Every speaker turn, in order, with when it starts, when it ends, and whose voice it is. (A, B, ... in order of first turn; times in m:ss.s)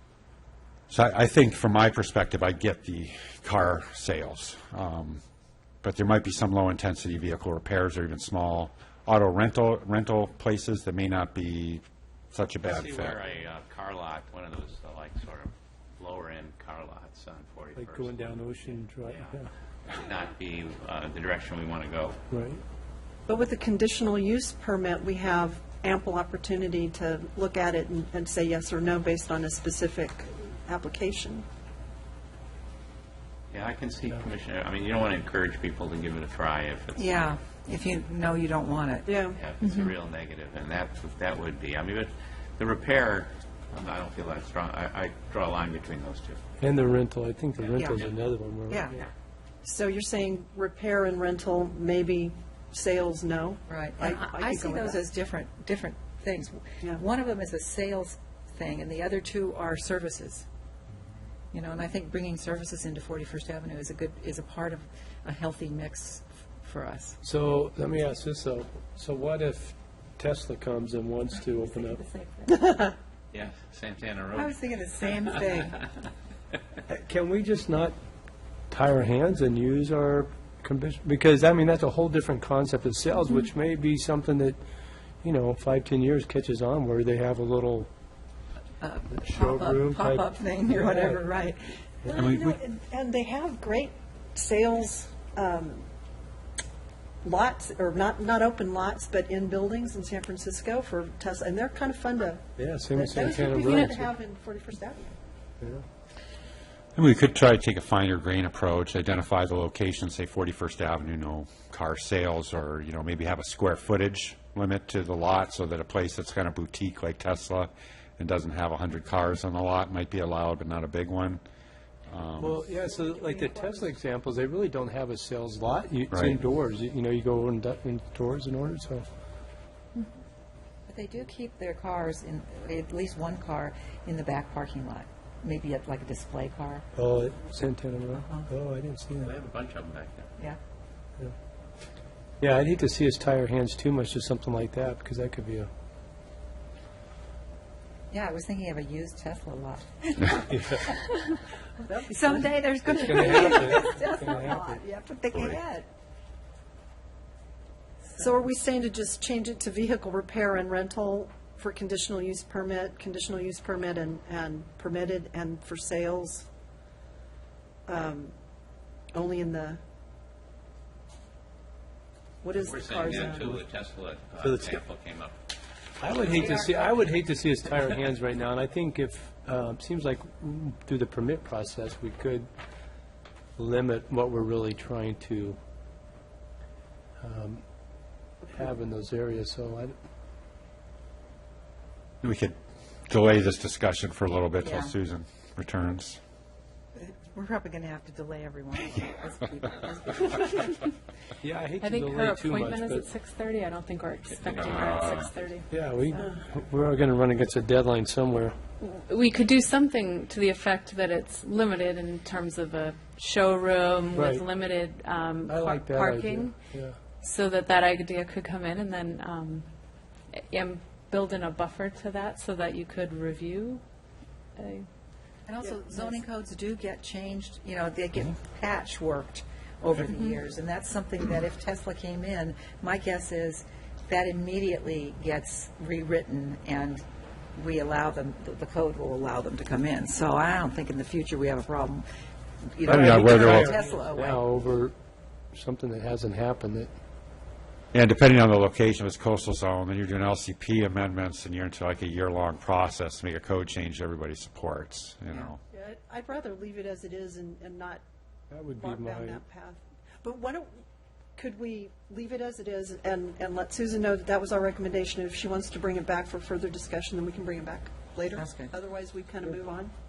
0:00.9-0:05.2 A
0:05.8-0:13.2 A
0:12.6-0:22.2 B
0:17.8-0:19.5 C
0:22.3-0:22.6 C
0:23.3-0:31.4 D
0:33.5-0:37.3 B
0:37.0-0:39.1 E
0:39.1-0:39.4 D
0:39.3-0:46.4 B
0:46.6-0:48.9 C
0:47.6-0:48.2 B
0:47.8-0:48.0 E
0:48.7-0:49.0 E
0:49.6-0:55.0 D
0:53.7-1:00.5 E
1:01.5-1:07.2 E
1:07.2-1:12.0 C
1:11.7-1:12.9 E
1:13.3-1:14.6 B
1:14.3-1:15.8 E
1:16.9-1:18.0 C
1:18.7-1:24.6 C
1:25.2-1:27.9 C
1:28.8-1:31.8 E
1:29.2-1:31.2 C
1:32.0-1:35.9 D
1:32.1-1:32.6 A
1:37.2-1:45.2 D
1:42.6-1:44.1 C
1:45.6-1:45.8 C
1:47.0-2:01.4 A
2:02.1-2:02.6 A
2:02.4-2:09.1 C
2:03.0-2:03.8 E
2:06.1-2:06.4 A
2:10.9-2:16.9 E
2:17.0-2:19.3 C
2:18.1-2:18.5 E
2:19.1-2:20.3 B
2:22.4-2:25.7 C
2:28.1-2:31.2 E
2:30.5-2:30.8 C
2:31.8-2:32.6 D
2:32.1-2:35.9 E
2:32.8-2:34.8 C
2:33.3-2:33.6 D
2:38.2-2:46.5 D
2:47.9-2:48.4 D
2:49.1-2:49.8 D
2:52.4-2:53.6 D
2:52.6-2:55.4 B
2:54.4-2:54.8 C
2:56.0-3:02.5 C
3:03.6-3:05.6 C
3:07.2-3:07.6 C
3:08.4-3:10.0 C
3:12.2-3:16.2 A
3:14.6-3:14.9 E
3:17.0-3:20.8 E
3:21.4-3:23.1 C
3:21.8-3:26.3 F
3:25.7-3:28.6 C
3:28.8-3:36.6 F
3:34.2-3:34.4 C
3:35.5-3:37.0 C
3:37.2-3:39.7 F
3:40.4-3:43.8 F
3:44.6-3:44.9 F
3:45.5-3:57.0 E
3:57.6-4:02.1 E
4:02.7-4:04.4 E
4:02.9-4:03.7 A
4:02.9-4:05.0 C
4:05.5-4:06.9 C
4:07.9-4:15.6 A
4:15.3-4:18.0 D
4:18.5-4:19.4 C
4:18.7-4:20.8 D
4:21.4-4:29.9 D
4:28.4-4:28.7 E